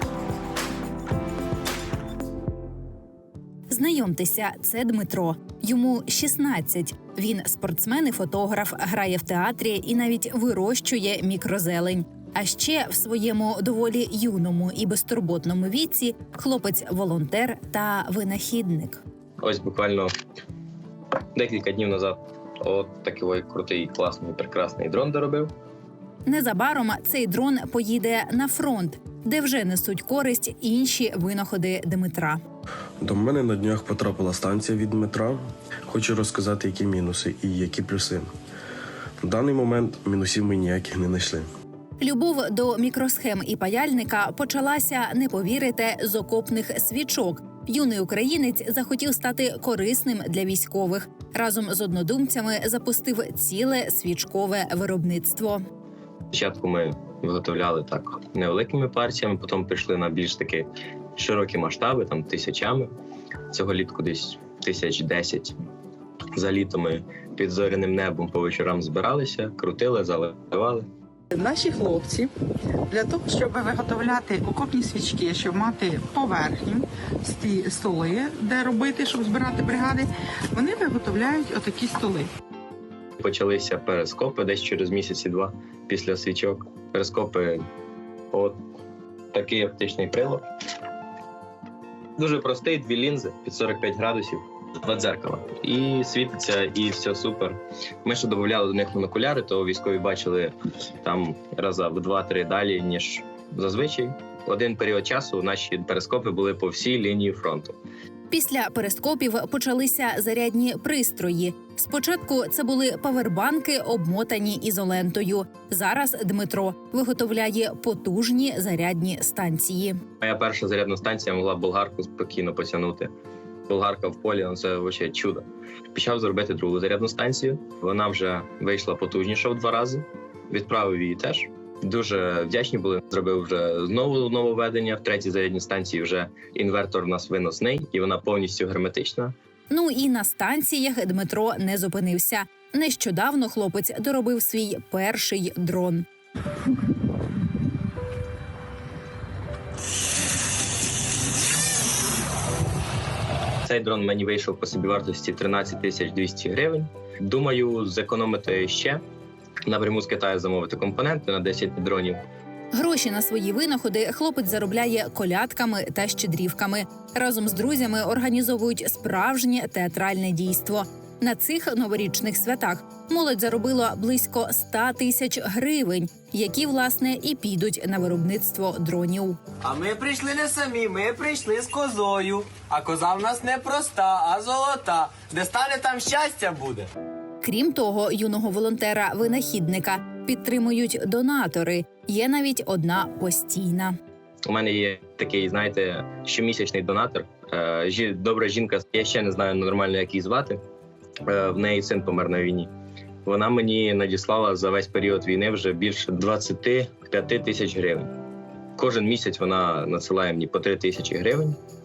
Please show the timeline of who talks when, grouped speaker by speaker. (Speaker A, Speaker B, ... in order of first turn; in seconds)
Speaker A: 3.7-19.0, 26.3-32.4, 42.0-55.6, 108.3-120.0, 139.7-146.1, 162.7-179.4, 187.4-193.9
Speaker B: 19.4-20.1, 21.4-25.5, 56.3-62.9, 63.5-65.6, 66.3-70.9, 83.2-87.6, 88.3-88.6, 89.3-90.4, 92.2-107.8, 120.2-123.1, 123.7-139.3, 153.6-159.0, 159.7-162.2, 194.5-200.6, 201.3-202.7, 203.2-208.1, 208.8-211.6
Speaker C: 33.0-38.3, 39.2-41.5
Speaker D: 71.3-72.3, 72.9-82.3
Speaker E: 179.6-186.9